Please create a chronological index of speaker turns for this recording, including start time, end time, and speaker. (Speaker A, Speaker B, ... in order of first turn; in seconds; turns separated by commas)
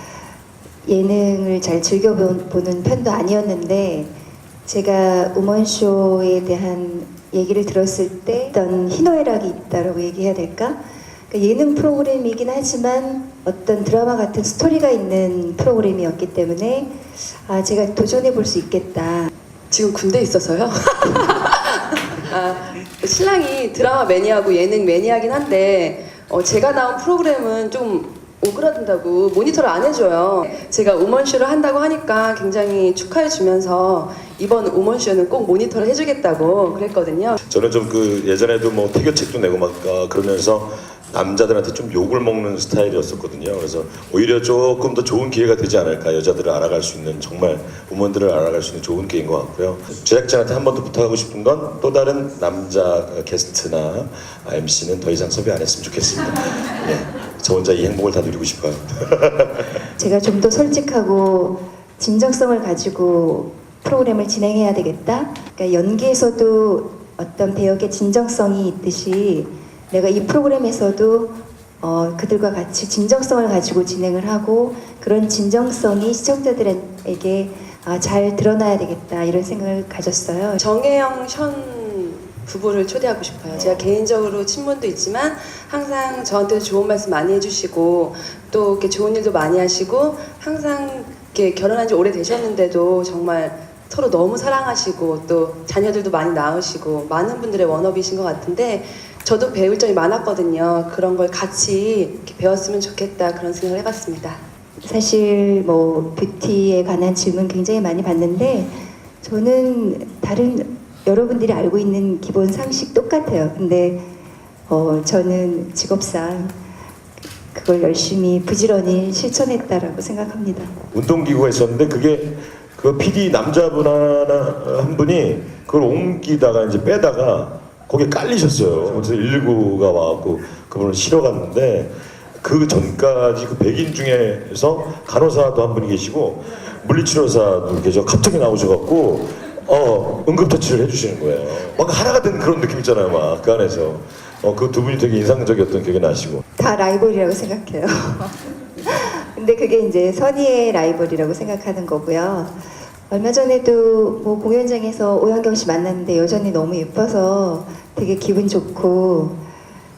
Speaker A: 0.9-4.1, Speaker A: 4.7-10.8, Speaker A: 11.3-19.3, Speaker B: 19.7-37.4, Speaker C: 37.4-59.8, Speaker A: 60.0-80.6, Speaker B: 80.6-104.4, Speaker A: 104.8-114.1, Speaker A: 114.7-116.6, Speaker A: 117.5-120.8, Speaker C: 120.9-146.4, Speaker A: 146.6-159.4